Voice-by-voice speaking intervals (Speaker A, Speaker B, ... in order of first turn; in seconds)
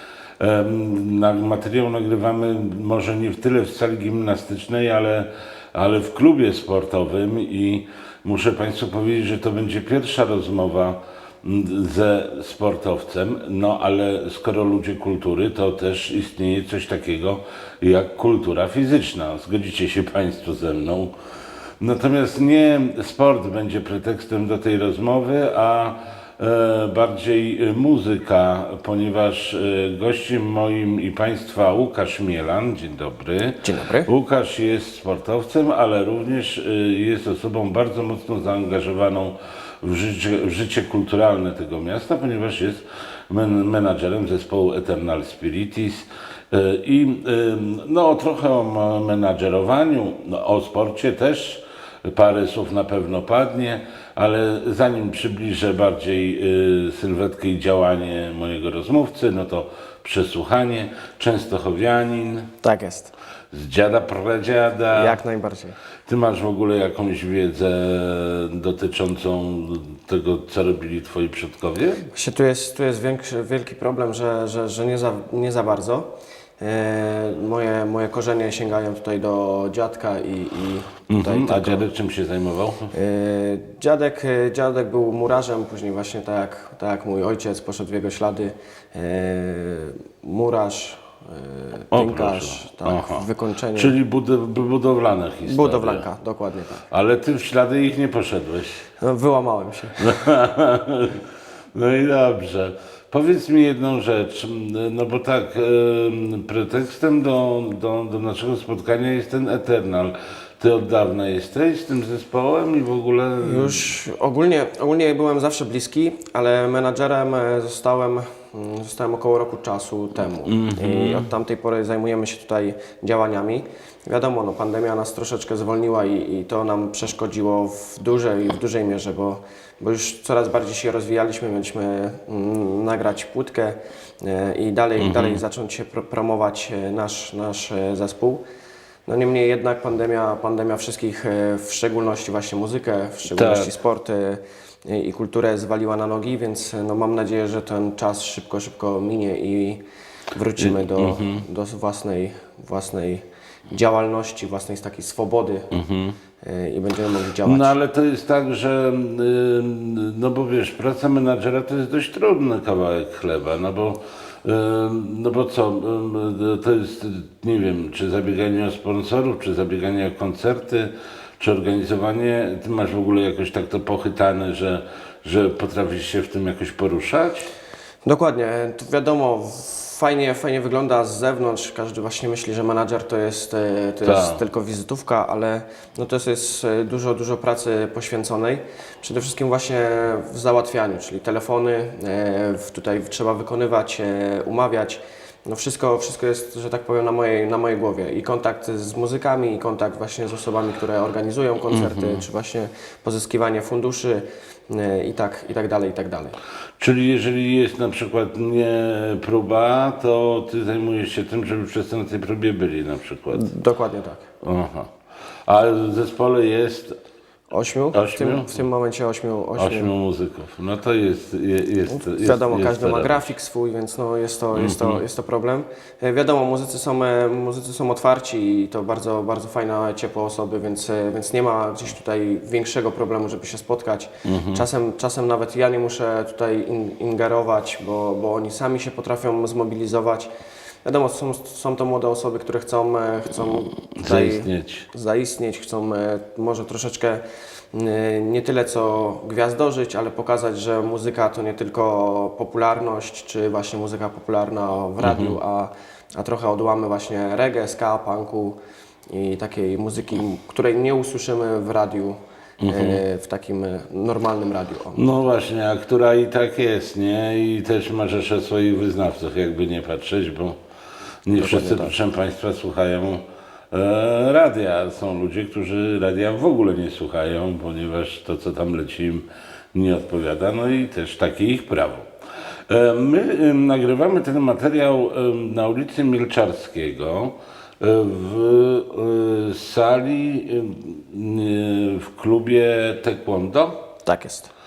Speaker A: 0.4-21.1, 21.8-62.5, 63.5-65.2, 66.1-72.1, 81.1-82.9, 91.9-96.0, 96.9-98.9, 100.0-113.9, 120.5-121.3, 135.0-135.4, 143.3-143.7, 150.6-151.4, 155.7-156.2, 157.4-177.5, 184.0-184.4, 201.7-202.2, 206.8-213.5, 214.4-214.9, 215.5-217.0, 217.9-218.6, 219.6-223.3, 224.5-225.0, 234.2-234.6, 244.0-244.9, 255.0-255.4, 262.6-263.0, 264.9-270.6, 271.2-282.1, 282.7-293.8
Speaker B: 33.6-34.1, 62.6-63.1, 64.9-65.8, 72.1-76.1, 76.6-81.9, 82.9-94.0, 95.5-96.9, 99.0-100.2, 113.4-138.4, 139.1-155.8, 156.4-157.7, 178.0-206.4, 213.3-214.3, 217.5-219.9, 221.9-240.3, 240.8-247.2, 247.7-258.6, 259.1-265.1, 271.4-271.9, 294.0-294.5